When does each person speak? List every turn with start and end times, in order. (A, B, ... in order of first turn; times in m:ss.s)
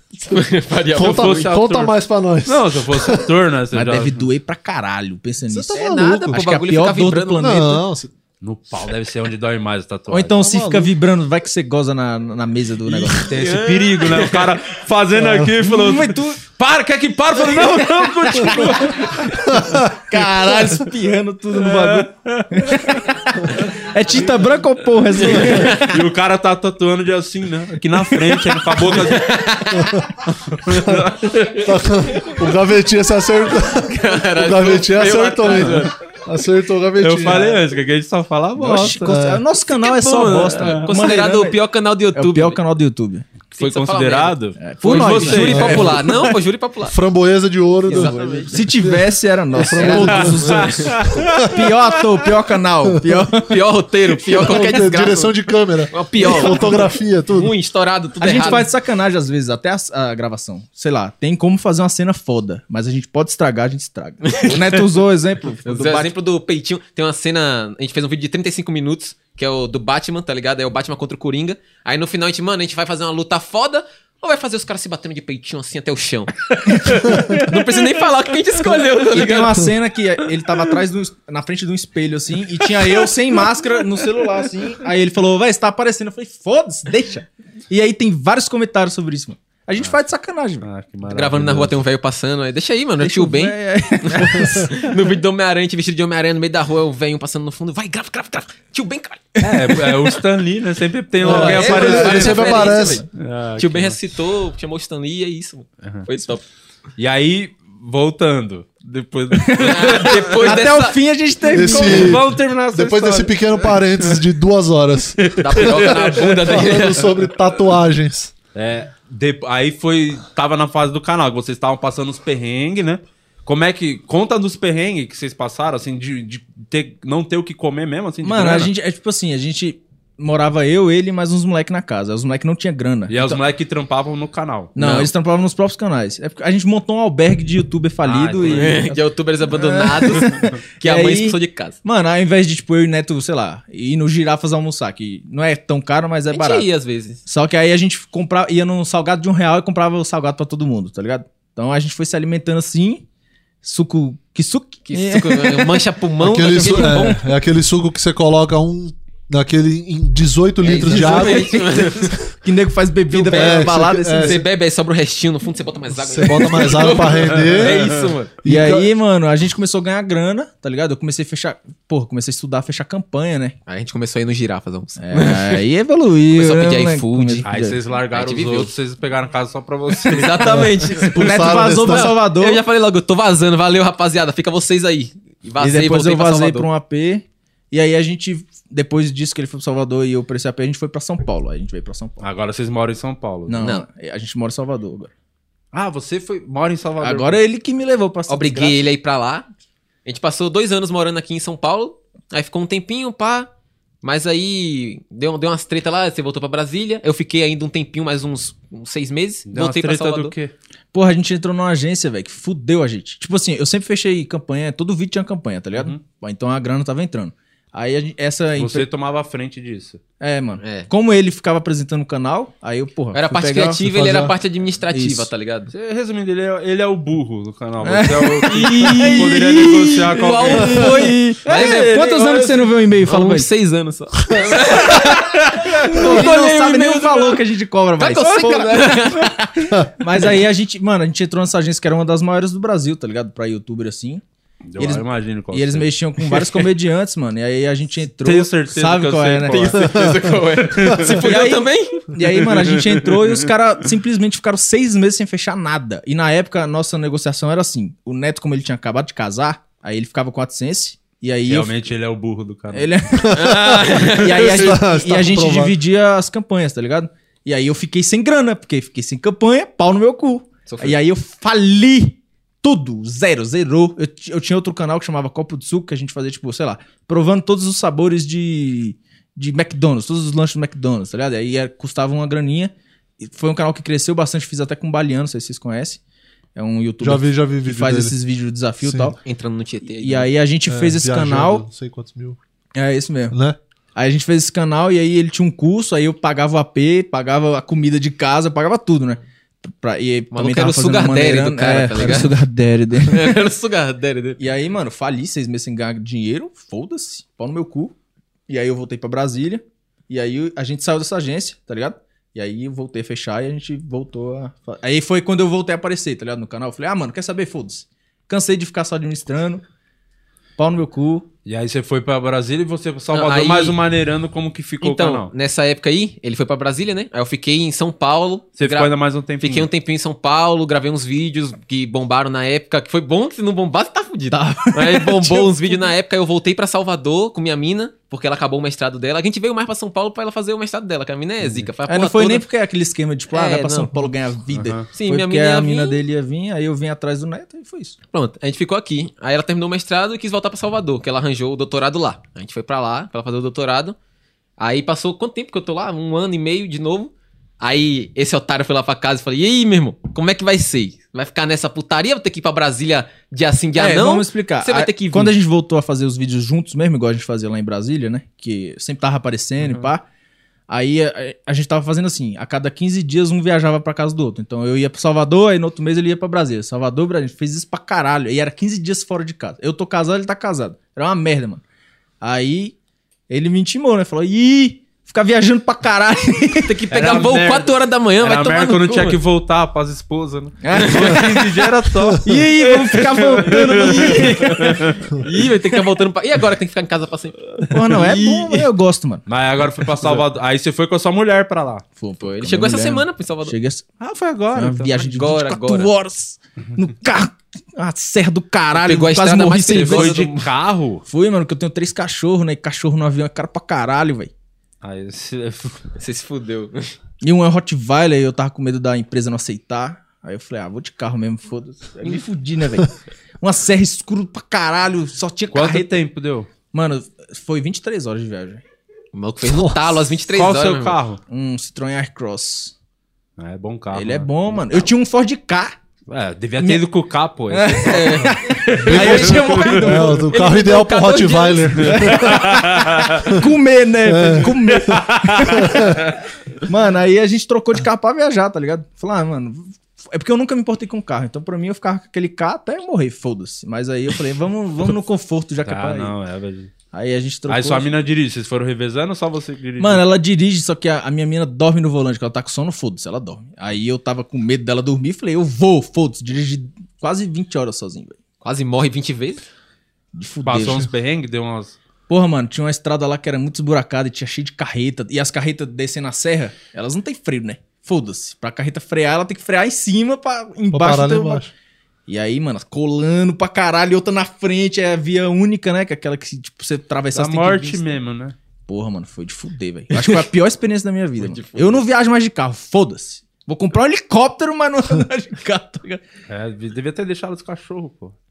0:00.3-0:01.6 A
0:00.9-0:03.2 B
0:01.0-0:04.3 C
0:03.7-0:07.8 D
0:05.5-0:06.6 B
0:05.7-0:07.6 A
0:07.4-0:08.1 B
0:08.4-0:10.4 C
0:10.1-0:13.3 D
0:10.4-0:10.9 B
0:12.9-0:19.3 C
0:13.3-0:14.5 A
0:15.2-0:15.5 B
0:15.6-0:16.4 D
0:17.6-0:18.9 D
0:19.5-0:25.8 D
0:21.6-0:22.8 C
0:25.2-0:25.9 A
0:25.7-0:29.3 C
0:28.8-0:30.0 A
0:29.8-0:30.0 B
0:30.3-0:31.7 C
0:31.6-0:37.6 B
0:33.7-0:35.9 A
0:37.0-0:39.1 C
0:38.6-0:41.6 D
0:38.6-0:39.4 B
0:39.8-0:42.6 A
0:40.4-0:40.9 C
0:42.1-0:43.3 D
0:43.5-0:45.9 C
0:43.6-0:47.0 A
0:44.6-0:46.1 D
0:46.9-0:49.0 B
0:47.9-0:48.6 A
0:47.9-0:53.6 D
0:49.5-0:51.6 B
0:49.8-0:51.0 A
0:50.5-0:51.6 C
0:53.5-0:58.7 A
0:54.3-0:57.5 B
0:58.2-1:06.1 D
1:04.2-1:04.8 A
1:05.6-1:19.7 A
1:16.8-1:17.6 D
1:18.7-1:30.6 D
1:22.8-1:23.1 A
1:30.6-1:31.8 C
1:31.1-1:39.4 A
1:33.0-1:34.8 D
1:39.4-1:44.0 C
1:41.2-1:42.9 D
1:41.2-1:43.1 A
1:41.3-1:43.0 B
1:43.6-1:46.4 A
1:45.8-1:46.1 C
1:47.0-1:50.5 C
1:49.4-1:52.2 D
1:49.6-1:51.0 A
1:51.5-1:58.3 B
1:51.7-1:54.1 C
1:55.2-1:56.8 C
1:55.4-1:57.2 A
1:58.6-2:08.7 C
2:08.2-2:13.4 D
2:13.1-2:14.7 C
2:14.8-2:26.7 D
2:14.8-2:15.1 A
2:18.0-2:18.8 C
2:18.4-2:21.8 A
2:26.3-2:27.2 A
2:27.3-2:33.0 D
2:33.6-2:35.9 D
2:34.9-2:37.2 A
2:36.2-2:41.9 B
2:36.5-2:37.2 D
2:40.6-2:42.2 A
2:40.6-2:44.4 D
2:43.1-2:48.4 A
2:43.3-2:44.4 B
2:45.9-2:48.9 B
2:47.5-2:47.9 C
2:48.4-2:53.6 D
2:53.7-2:55.6 A
2:55.0-2:57.8 D
2:56.3-2:57.5 A
2:57.4-3:00.6 C
2:58.1-2:58.7 A
2:59.9-3:06.7 A
3:01.1-3:02.1 B
3:01.1-3:02.6 D
3:05.6-3:12.2 D
3:12.2-3:13.6 C
3:13.5-3:15.1 D
3:15.7-3:17.4 C
3:17.0-3:18.8 D
3:18.3-3:19.4 A
3:20.0-3:23.5 A
3:24.0-3:30.4 A
3:29.5-3:30.5 C
3:30.9-3:38.9 D
3:38.6-3:40.0 C
3:40.2-3:43.9 D
3:40.6-3:40.9 A
3:43.1-3:45.7 A
3:43.9-3:44.3 B
3:44.9-3:45.3 D
3:45.7-3:50.9 C
3:47.8-3:50.0 D
3:48.5-3:57.4 A
3:50.5-3:53.5 D
3:51.4-3:52.0 C
3:55.6-3:55.9 C
3:55.8-4:04.2 D
3:58.0-3:59.4 A
4:04.7-4:05.9 C
4:04.8-4:10.1 D
4:08.2-4:09.8 C
4:09.4-4:12.1 A
4:10.7-4:11.1 C
4:11.2-4:21.7 D
4:12.3-4:13.4 C
4:21.5-4:22.9 C
4:22.7-4:46.0 D
4:23.3-4:25.7 B
4:23.3-4:24.8 A
4:30.7-4:31.0 A
4:46.6-4:49.2 D
4:47.0-4:48.1 B
4:48.8-4:49.1 B
4:49.2-4:50.3 A
4:49.8-4:51.6 D
4:50.7-4:52.4 B
4:52.8-4:53.4 D
4:53.3-4:53.6 B
4:54.0-5:03.4 D
5:00.3-5:02.4 A
5:03.0-5:04.4 A
5:04.4-5:07.9 D
5:08.5-5:19.6 D
5:20.6-5:21.3 D
5:21.4-5:25.3 C
5:23.1-5:23.8 A
5:24.8-5:42.4 A
5:28.6-5:29.7 C
5:34.3-5:35.9 D
5:41.4-5:41.7 C
5:41.9-5:48.0 D
5:43.3-5:44.1 A
5:44.5-5:44.9 C
5:44.9-5:46.0 A
5:48.1-5:54.0 A
5:54.6-6:05.3 A
6:03.8-6:10.0 D
6:10.7-6:21.6 D
6:22.2-6:22.8 D
6:23.3-6:26.7 D
6:26.6-6:29.2 A
6:26.9-6:35.0 C
6:30.6-6:31.5 D
6:30.8-6:31.4 A
6:32.2-6:34.7 D
6:33.5-6:38.6 A
6:37.7-6:39.2 D
6:39.3-6:41.8 C
6:42.0-6:43.9 D
6:42.4-6:43.6 A
6:44.0-6:45.0 C
6:44.5-6:50.2 D
6:45.0-6:45.9 A
6:48.7-6:50.5 A
6:49.7-6:51.0 C
6:51.1-6:54.3 D
6:54.8-6:55.8 C
6:56.0-6:56.9 A
6:57.2-7:02.9 D
7:03.4-7:05.9 D
7:05.5-7:06.5 C
7:06.7-7:08.6 D
7:09.1-7:11.0 A
7:10.3-7:11.2 C
7:11.3-7:12.7 D
7:13.4-7:14.6 C
7:13.9-7:15.7 D
7:16.1-7:19.9 C
7:17.5-7:20.5 D
7:17.8-7:19.7 A
7:18.8-7:22.5 B
7:20.3-7:22.2 A
7:21.9-7:26.0 D
7:22.0-7:23.3 C
7:24.1-7:25.0 B
7:24.7-7:26.0 C
7:25.6-7:26.0 B
7:26.6-7:36.2 D
7:35.6-7:36.7 C
7:36.9-7:37.9 D
7:37.5-7:40.0 C
7:39.8-7:48.2 D
7:48.4-7:49.4 A
7:50.1-7:50.9 D
7:50.4-7:51.8 C
7:52.1-8:01.4 D
8:00.7-8:01.5 B
8:02.1-8:08.0 D
8:07.1-8:08.4 C
8:08.7-8:16.0 D
8:09.9-8:10.2 A
8:11.2-8:11.8 A
8:16.3-8:18.1 C